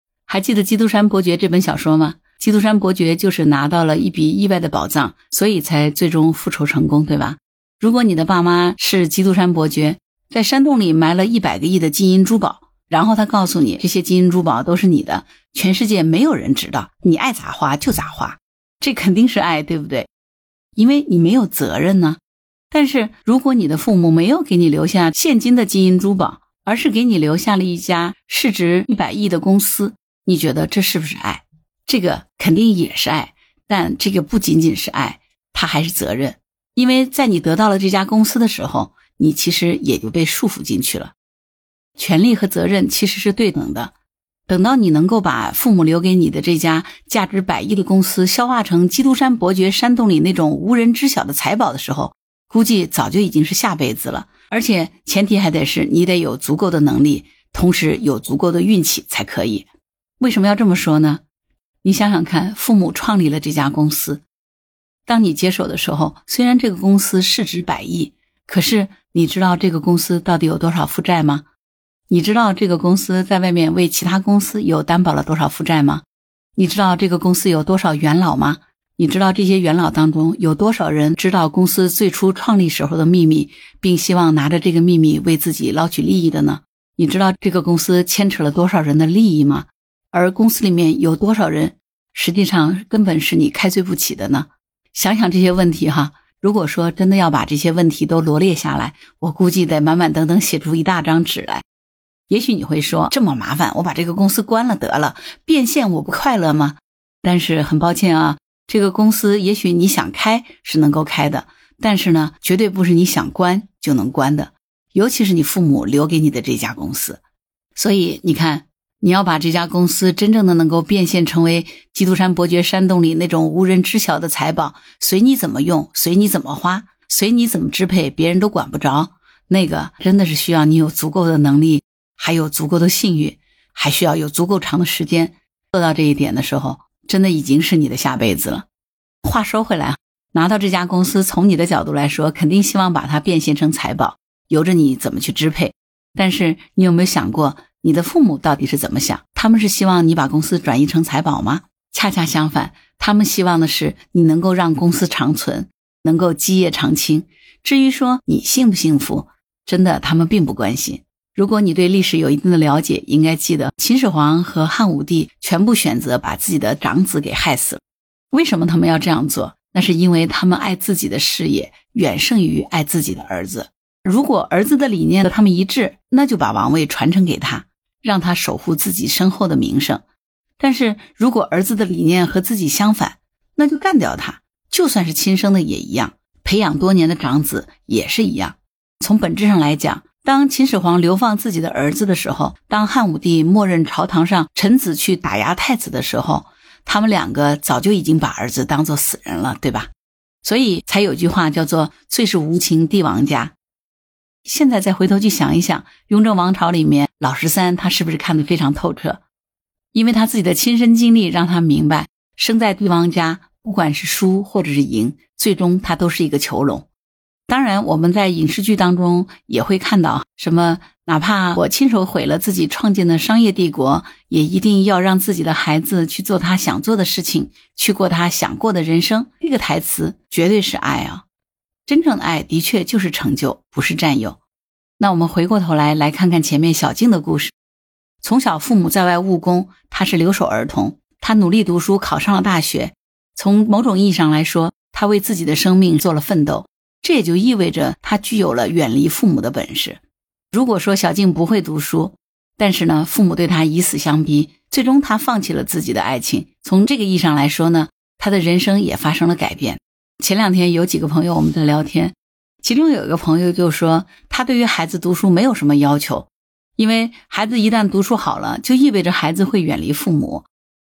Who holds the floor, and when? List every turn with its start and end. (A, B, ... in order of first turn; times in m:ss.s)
0:00.3-0:20.1 A
0:20.8-0:22.2 A
0:22.7-0:41.1 A
0:42.0-0:43.9 A
0:44.5-0:59.7 A
1:00.2-1:01.2 A
1:01.8-1:04.2 A
1:05.0-1:11.4 A
1:12.1-1:16.0 A
1:16.6-1:41.6 A
1:42.3-1:57.2 A
1:57.8-2:18.6 A
2:19.2-2:47.8 A
2:48.3-3:00.0 A
3:00.6-3:19.9 A
3:20.4-3:23.5 A
3:24.4-3:29.2 A
3:29.9-3:36.9 A
3:37.5-3:51.2 A
3:51.8-3:54.4 A
3:55.0-3:57.5 A
3:58.2-4:10.0 A
4:10.5-4:30.5 A